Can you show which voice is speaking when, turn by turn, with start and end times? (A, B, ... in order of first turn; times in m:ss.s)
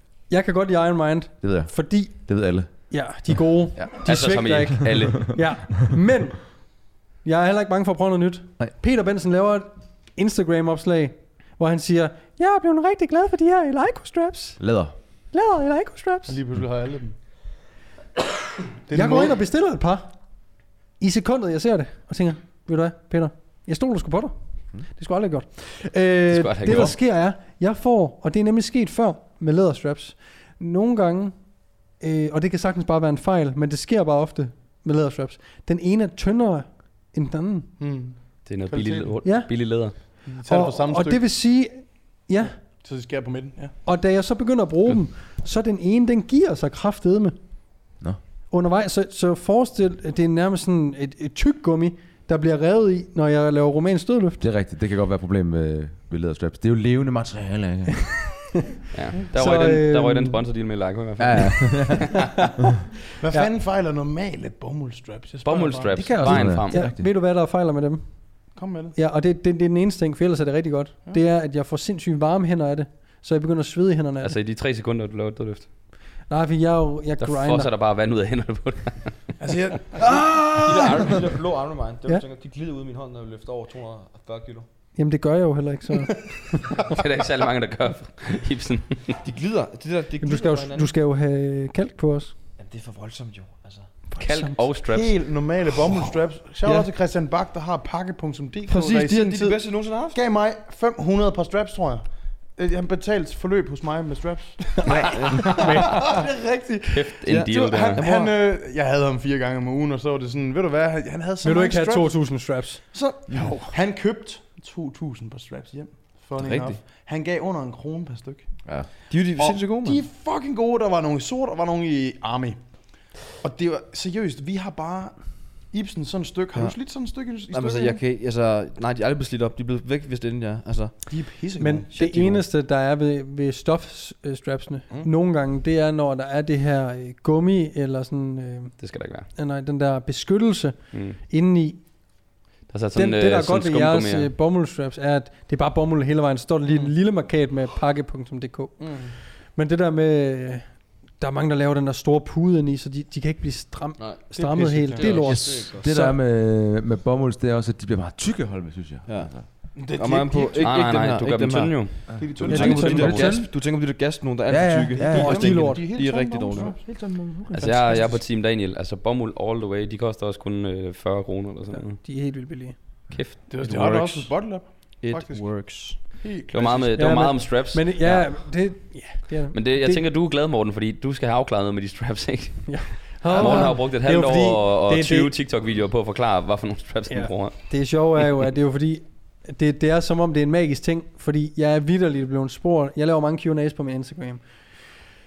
0:00.3-0:14.6 A
0:01.4-0:03.9 B
0:04.0-0:05.5 C
0:14.6-0:14.9 B
0:15.3-0:16.4 A
0:16.3-0:17.2 D
0:18.9-0:19.4 D
0:18.9-0:20.4 A
0:21.0-0:37.7 A
0:26.3-0:27.0 C
0:37.8-0:39.2 D
0:38.4-0:40.0 C
0:39.2-0:42.6 A
0:40.2-0:41.3 D
0:42.6-0:43.8 D
0:43.8-0:47.6 A
0:48.5-0:54.4 A
0:54.4-0:58.4 B
0:58.9-1:02.2 C
0:59.3-1:00.4 A
1:01.2-1:02.2 B
1:03.2-1:06.5 D
1:05.4-1:06.8 C
1:05.9-1:07.1 B
1:06.6-1:14.4 A
1:08.5-1:09.0 D
1:14.2-1:15.7 C
1:16.3-1:17.7 A
1:17.2-1:19.4 C
1:19.4-1:21.1 D
1:20.0-1:24.6 E
1:25.0-1:26.4 A
1:26.9-1:29.2 C
1:29.2-1:30.9 E
1:30.2-1:32.3 A
1:32.6-1:33.9 E
1:34.1-1:34.6 A
1:34.2-1:35.1 C
1:34.9-1:58.5 D
1:38.6-1:40.2 E
1:44.8-1:46.1 E
1:45.5-1:46.1 A
1:46.9-1:48.1 C
1:47.3-1:48.3 E
1:51.4-1:53.7 A
1:56.4-1:56.8 E
1:58.6-2:00.0 E
1:59.4-2:08.0 D
2:07.5-2:11.0 E
2:11.1-2:12.3 D
2:11.6-2:21.9 A
2:12.0-2:12.4 E
2:18.8-2:19.3 C
2:20.9-2:21.2 C
2:22.7-2:24.3 C
2:22.9-2:29.0 A
2:28.8-2:29.1 D
2:29.5-2:36.2 A
2:34.0-2:35.9 E
2:34.4-2:35.2 D
2:35.2-2:39.5 B
2:39.0-2:47.7 E
2:39.7-2:40.8 D
2:40.6-2:42.8 C
2:42.1-2:43.5 B
2:42.2-2:43.3 D
2:42.5-2:43.4 A
2:44.5-2:45.5 B
2:45.0-2:48.2 D
2:45.1-2:45.8 A
2:47.5-2:52.0 C
2:52.0-2:52.8 A
2:53.1-2:53.6 C
2:53.5-2:57.1 D
2:53.6-2:54.3 E
2:55.0-2:56.1 E
2:56.5-3:07.8 C
2:57.0-3:00.0 A
3:02.7-3:05.3 A
3:03.3-3:03.8 D
3:07.1-3:14.4 A